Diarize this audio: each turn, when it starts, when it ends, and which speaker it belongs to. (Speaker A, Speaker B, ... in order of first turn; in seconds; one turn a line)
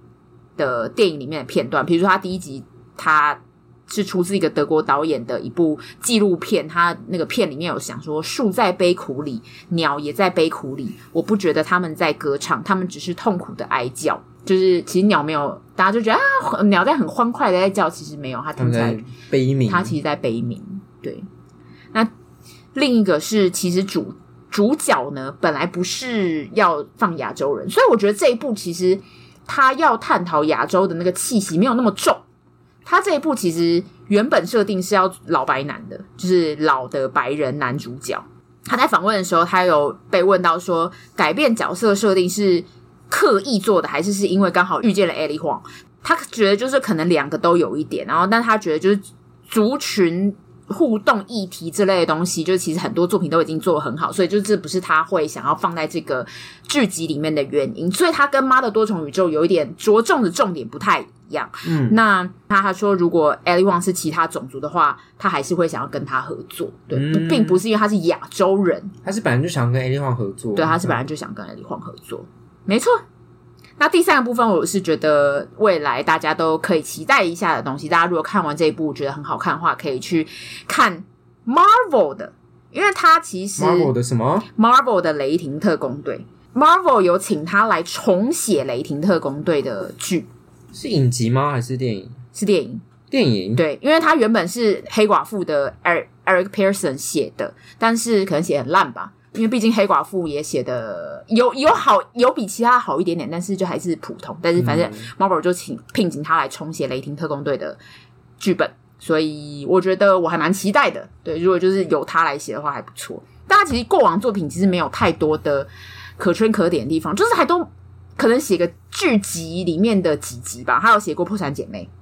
Speaker A: 0.6-19.0
Speaker B: 18.6-19.9
Speaker A: 19.7-21.2
Speaker A: 22.7-32.2
Speaker A: 32.8-68.9
Speaker B: 61.6-62.0
Speaker B: 66.9-67.6
Speaker B: 69.0-71.0
Speaker A: 70.5-73.0
Speaker A: 73.8-83.9
Speaker B: 83.6-84.5
Speaker A: 84.5-90.3
Speaker B: 90.7-92.2
Speaker A: 92.3-92.8
Speaker B: 93.1-93.6
Speaker A: 93.5-107.8
Speaker B: 104.6-105.1
Speaker A: 108.4-121.9